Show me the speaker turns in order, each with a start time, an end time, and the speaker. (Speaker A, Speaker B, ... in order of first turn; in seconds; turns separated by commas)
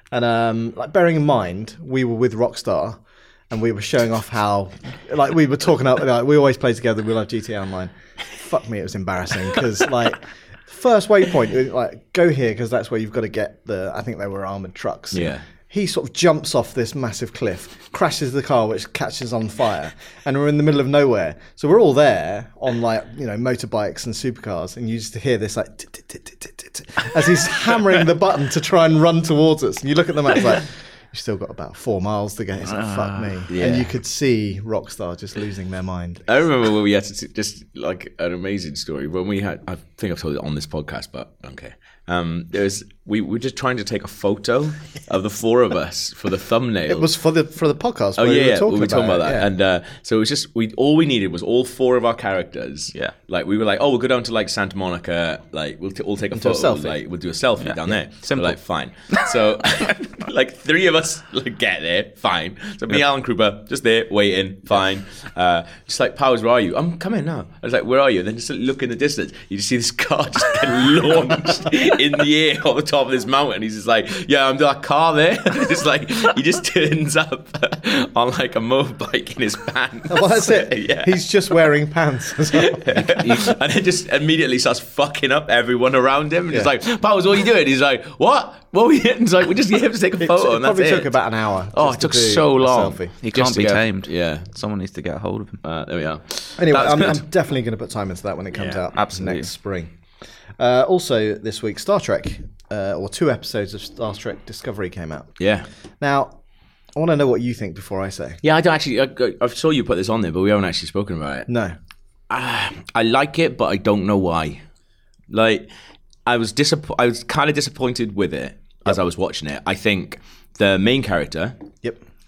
Speaker A: 0.1-36.2, Speaker B: 15.1-15.4, Speaker C: 32.7-33.4, Speaker B: 33.5-33.9, Speaker B: 36.3-47.1, Speaker A: 46.9-49.5, Speaker B: 48.2-81.2, Speaker A: 56.3-57.0, Speaker C: 57.6-58.6, Speaker A: 80.1-83.2, Speaker B: 82.5-91.1, Speaker C: 83.1-83.5, Speaker A: 90.2-93.1, Speaker B: 91.7-94.5, Speaker C: 93.2-95.6, Speaker B: 95.6-97.2, Speaker A: 96.6-99.9, Speaker B: 98.5-98.8, Speaker C: 98.9-99.5, Speaker A: 100.6-105.4, Speaker B: 105.4-105.7, Speaker A: 106.0-106.4, Speaker A: 107.0-108.4, Speaker B: 108.4-111.5, Speaker A: 111.5-111.8, Speaker B: 112.3-114.6, Speaker B: 115.3-115.7, Speaker B: 116.2-121.6